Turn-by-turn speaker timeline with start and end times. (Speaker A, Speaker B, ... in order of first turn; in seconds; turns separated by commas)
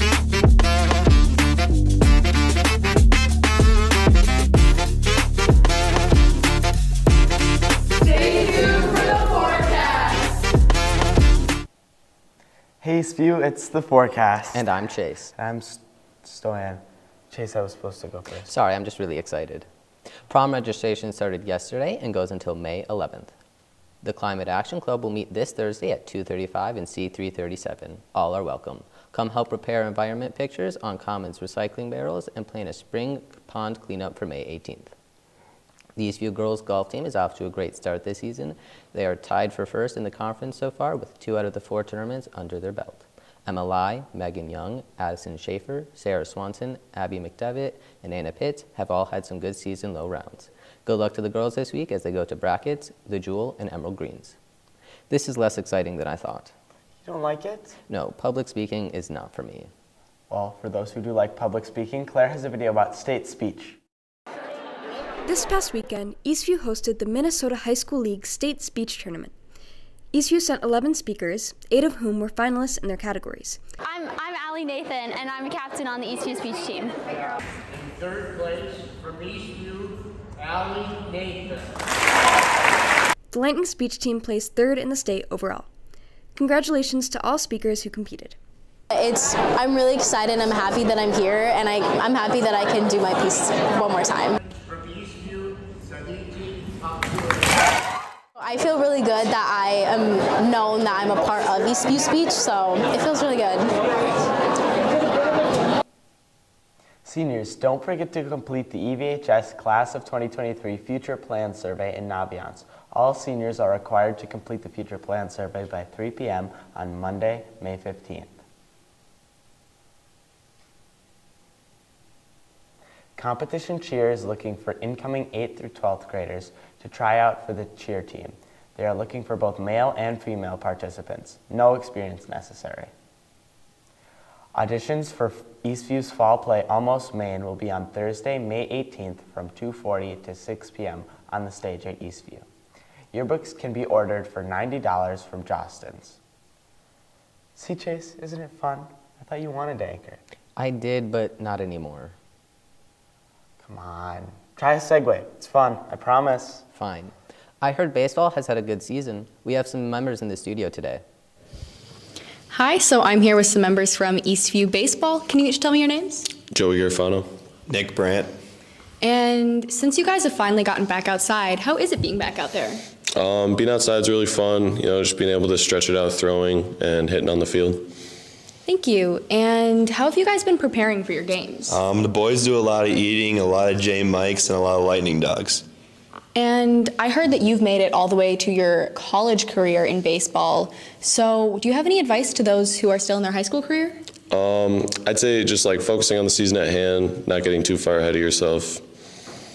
Speaker A: 12.8-14.7, Speaker B: 14.5-15.3, Speaker A: 15.4-18.5, Speaker B: 18.4-19.7, Speaker B: 20.3-23.3, Speaker B: 24.0-34.9, Speaker B: 36.0-54.4, Speaker B: 55.1-56.5, Speaker A: 57.0-57.8, Speaker B: 57.9-59.7, Speaker A: 60.3-63.8, Speaker C: 65.3-69.3, Speaker C: 70.1-73.6, Speaker D: 73.8-77.0, Speaker E: 78.0-81.6, Speaker C: 83.3-85.7, Speaker C: 86.4-88.4, Speaker F: 88.9-94.4, Speaker E: 95.1-95.5, Speaker E: 96.1-96.7, Speaker F: 98.4-103.8, Speaker A: 107.0-118.3, Speaker A: 123.2-132.9, Speaker A: 134.6-142.5, Speaker A: 143.1-146.2, Speaker A: 147.6-150.2, Speaker B: 150.6-152.2, Speaker A: 153.6-156.6, Speaker B: 156.7-161.0, Speaker G: 162.5-166.3, Speaker H: 166.5-167.3, Speaker I: 167.7-168.3, Speaker G: 169.0-172.8, Speaker H: 173.2-177.9, Speaker G: 178.7-181.8, Speaker I: 181.7-185.6, Speaker G: 186.3-194.0, Speaker H: 194.3-198.8